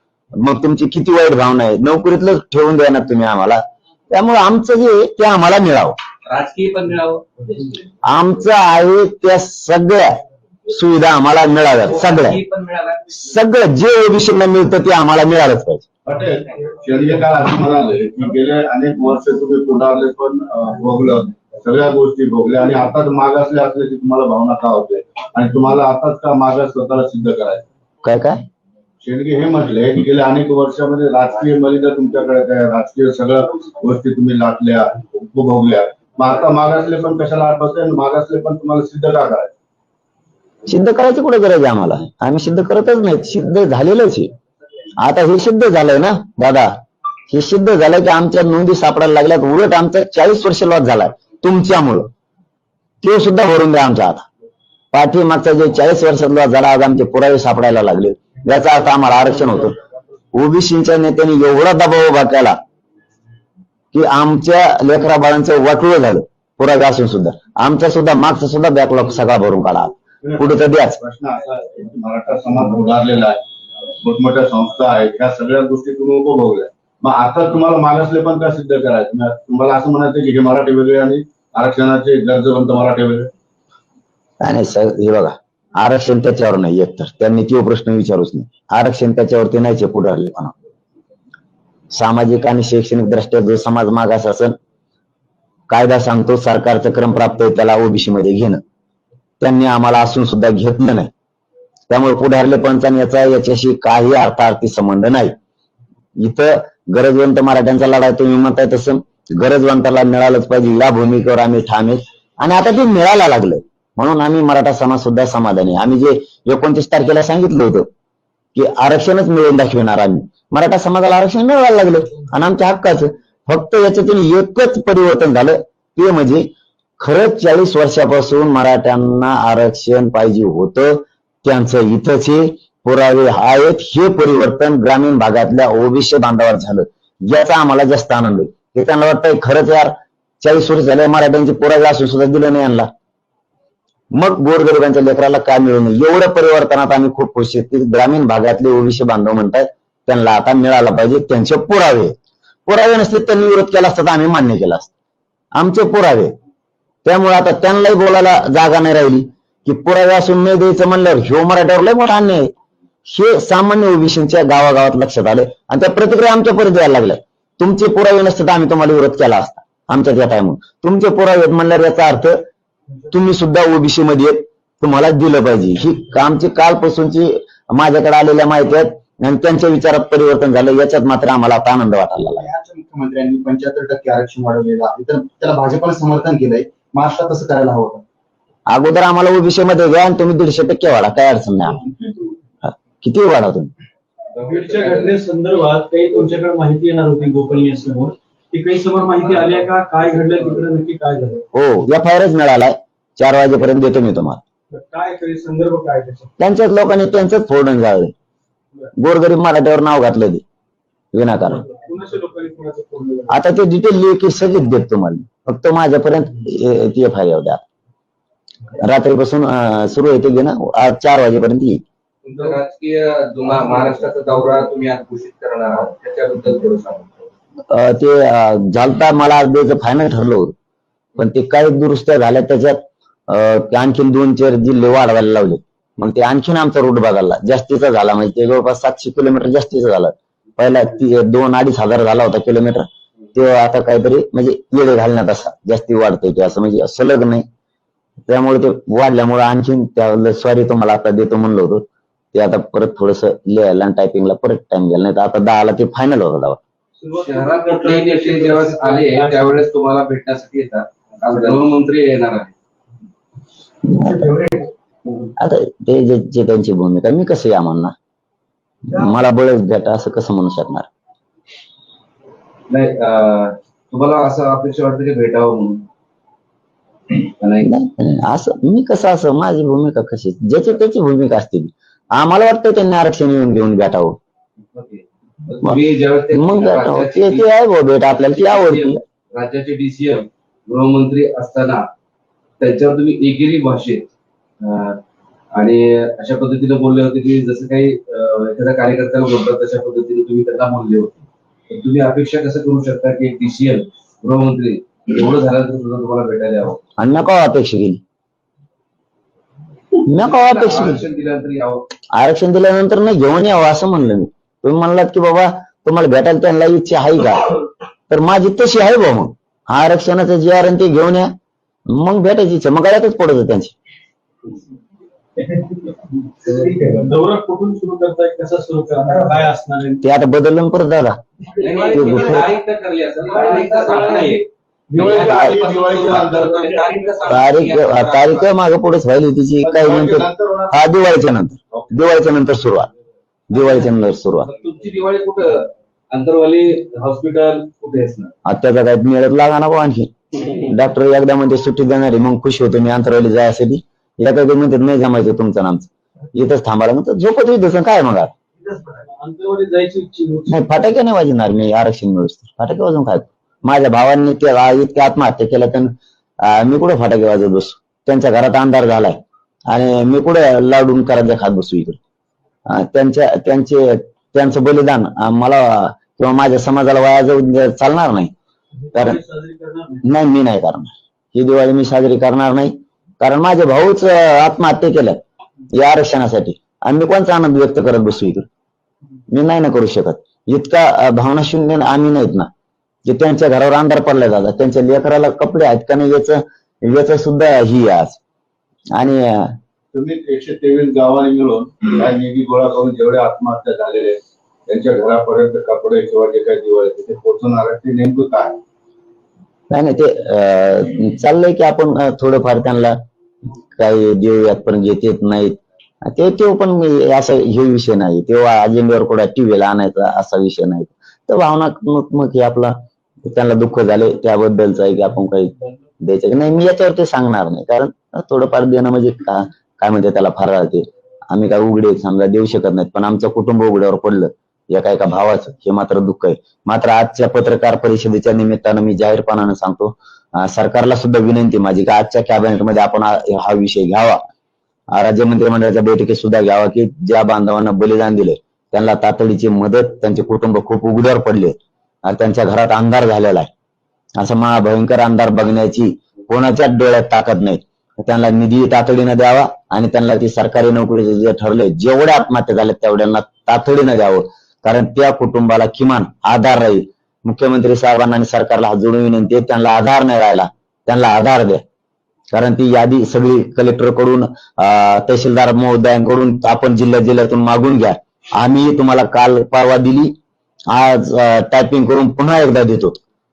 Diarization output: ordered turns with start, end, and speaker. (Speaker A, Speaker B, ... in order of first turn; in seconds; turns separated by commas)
Speaker A: 0.4-5.9, Speaker B: 6.2-7.2, Speaker A: 8.0-12.4, Speaker B: 11.9-13.2, Speaker A: 13.1-15.9, Speaker C: 16.0-27.6, Speaker A: 28.0-28.4, Speaker C: 29.0-39.5, Speaker A: 40.7-44.3, Speaker A: 45.0-46.7, Speaker A: 47.3-52.1, Speaker A: 53.0-54.2, Speaker A: 54.9-59.8, Speaker A: 60.3-62.5, Speaker A: 63.9-71.0, Speaker C: 70.2-73.4, Speaker C: 74.0-83.3, Speaker A: 84.4-90.5, Speaker A: 91.9-94.5, Speaker A: 95.7-98.6, Speaker A: 99.4-101.1, Speaker A: 101.9-105.3, Speaker A: 106.2-117.9, Speaker A: 118.5-126.5, Speaker A: 127.0-142.9, Speaker A: 144.1-152.1, Speaker A: 152.7-154.9, Speaker A: 155.6-156.3, Speaker A: 157.1-162.5, Speaker A: 163.0-172.4, Speaker A: 173.1-182.5, Speaker D: 182.4-188.0, Speaker A: 188.7-191.8, Speaker A: 192.6-193.7, Speaker E: 194.4-195.2, Speaker F: 194.5-201.4, Speaker E: 199.2-199.7, Speaker A: 201.5-204.4, Speaker F: 204.7-206.3, Speaker A: 206.4-208.1, Speaker A: 209.0-210.4, Speaker A: 211.1-211.7, Speaker F: 211.9-213.3, Speaker A: 213.3-217.6, Speaker A: 218.8-221.8, Speaker E: 222.2-227.1, Speaker A: 227.7-230.5, Speaker A: 231.2-247.4, Speaker A: 248.3-256.6, Speaker F: 257.0-259.4, Speaker E: 257.1-262.5, Speaker A: 263.9-264.4, Speaker A: 265.4-267.9, Speaker A: 268.9-270.9, Speaker E: 272.7-275.9, Speaker E: 277.1-277.7, Speaker A: 277.6-284.2, Speaker E: 284.7-287.5, Speaker A: 286.3-289.0, Speaker E: 288.4-291.8, Speaker E: 292.6-294.1, Speaker E: 294.6-295.0, Speaker E: 295.5-306.8, Speaker A: 307.0-308.0, Speaker A: 310.0-311.0, Speaker E: 310.2-311.9, Speaker A: 312.1-317.5, Speaker A: 318.1-321.3, Speaker A: 321.9-323.8, Speaker F: 326.6-330.0, Speaker A: 330.0-331.2, Speaker B: 331.7-334.4, Speaker E: 331.8-332.3, Speaker F: 331.8-332.2, Speaker A: 331.9-332.5, Speaker F: 333.2-334.4, Speaker C: 333.5-334.2, Speaker F: 334.9-335.3, Speaker C: 335.0-336.6, Speaker B: 335.0-338.5, Speaker F: 336.3-336.6, Speaker A: 337.3-342.9, Speaker C: 339.6-340.8, Speaker C: 341.7-342.0, Speaker A: 343.5-344.5, Speaker E: 344.4-348.3, Speaker A: 348.4-358.3, Speaker F: 359.1-360.5, Speaker A: 360.5-365.9, Speaker A: 366.4-369.2, Speaker A: 369.7-372.0, Speaker A: 372.7-378.3, Speaker A: 378.9-379.2, Speaker F: 378.9-380.0, Speaker A: 380.0-385.2, Speaker A: 385.7-388.5, Speaker A: 389.3-392.5, Speaker A: 393.1-398.2, Speaker A: 398.9-399.5, Speaker C: 399.9-408.6, Speaker A: 409.7-413.0, Speaker A: 413.8-444.2, Speaker A: 444.9-451.6, Speaker A: 452.1-453.5, Speaker A: 454.2-471.6, Speaker A: 472.3-480.1, Speaker A: 480.7-483.0